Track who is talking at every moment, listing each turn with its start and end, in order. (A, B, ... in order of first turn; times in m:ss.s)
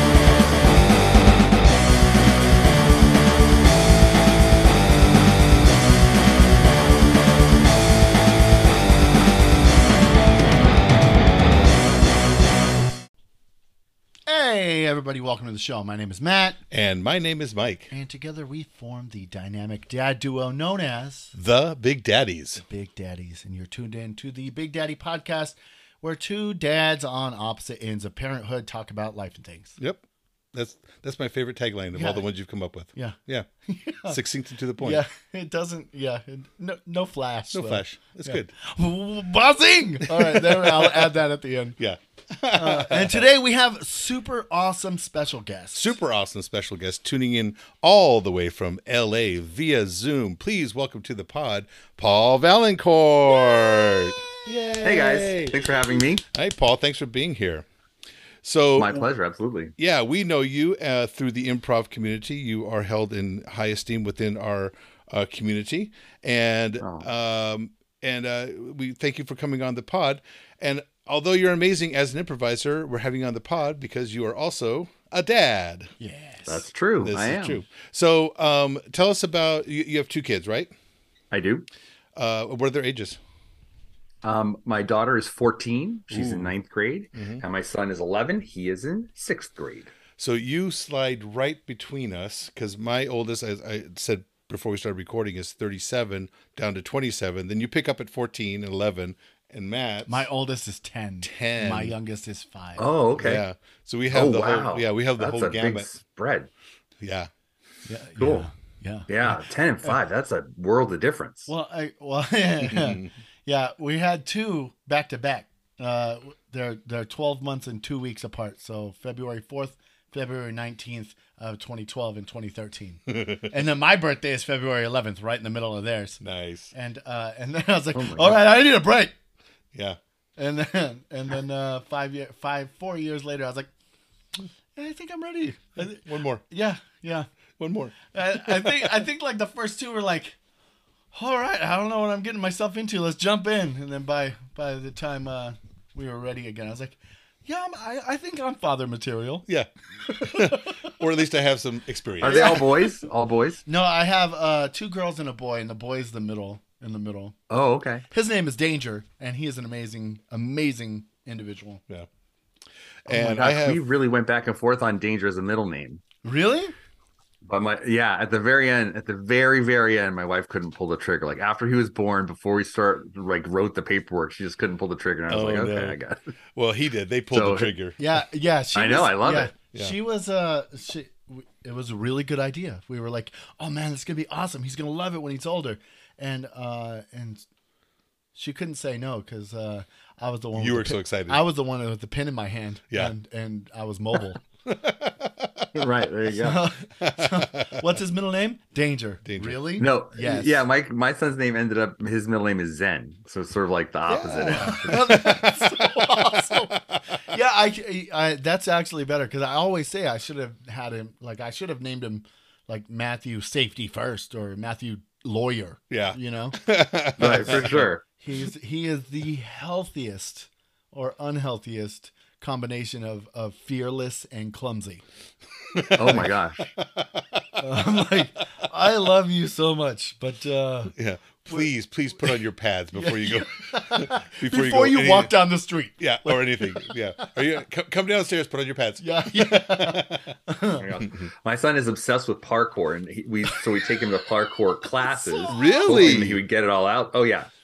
0:14.3-0:16.6 A
0:16.7-0:17.9 B
0:17.9-0:21.3 A
0:21.3-0:22.6 B
0:22.6-0:29.8 A
0:30.5-0:33.5 B
0:31.9-0:32.2 A
0:32.9-0:34.2 A
0:34.1-0:35.0 B
0:34.8-0:41.8 A
0:37.5-0:38.5 B
0:40.0-0:41.1 B
0:41.8-0:43.2 B
0:42.5-0:45.9 A
0:45.7-0:57.6 B
0:54.8-0:56.2 C
0:58.4-0:59.0 B
0:58.8-0:59.7 C
0:59.8-1:15.9 B
1:06.8-1:07.1 C
1:16.0-1:16.6 A
1:16.5-1:17.6 C
1:17.0-1:20.7 B
1:21.3-1:21.7 C
1:22.2-1:23.2 B
1:24.2-1:29.9 C
1:26.1-1:26.5 B
1:27.1-1:27.4 B
1:30.2-1:40.3 B
1:40.0-1:42.9 A
1:41.2-1:41.9 B
1:42.8-1:43.4 C
1:43.2-1:45.9 B
1:44.1-1:46.5 C
1:47.0-1:47.3 B
1:47.8-1:49.1 A
1:48.2-1:48.5 C
1:49.1-1:51.5 C
1:51.5-2:06.2 A
1:52.6-1:53.1 B
2:03.1-2:03.5 B
2:06.2-2:06.7 B
2:06.7-2:09.1 A
2:07.9-2:08.4 C
2:09.7-2:10.0 B
2:10.4-2:13.7 A
2:14.7-2:17.3 A
2:16.0-2:16.4 B
2:17.6-2:18.9 B
2:18.1-2:20.4 A
2:21.1-2:29.4 A
2:30.1-2:30.8 A
2:30.2-2:32.7 B
2:32.2-2:33.6 C
2:32.2-2:32.9 A
2:33.6-2:37.3 A
2:37.5-2:38.0 C
2:38.1-2:41.8 A
2:43.0-2:43.8 B
2:43.1-2:46.0 C
2:46.2-2:46.7 A
2:47.4-2:56.2 C
2:55.3-2:56.0 B
2:56.5-2:58.0 B
2:57.3-2:57.7 C
2:58.0-3:07.4 A
2:58.7-2:59.5 C
3:08.3-3:14.4 A
3:10.6-3:11.4 B
3:14.6-3:15.7 B
3:15.7-3:16.6 C
3:16.4-3:20.6 A
3:17.0-3:17.8 B
3:19.2-3:19.6 B
3:19.8-3:25.2 C
3:24.1-3:27.0 B
3:24.5-3:36.6 A
3:35.9-3:37.9 B
3:37.2-3:45.0 A
3:37.2-3:38.0 C
3:45.7-3:47.8 B
3:45.9-3:46.7 C
3:47.6-3:50.9 A
3:50.9-3:55.3 B
3:52.9-3:56.9 A
3:56.0-4:00.3 B
3:59.0-4:00.8 A
4:00.8-4:07.5 C
4:04.9-4:06.2 A
4:05.5-4:06.4 B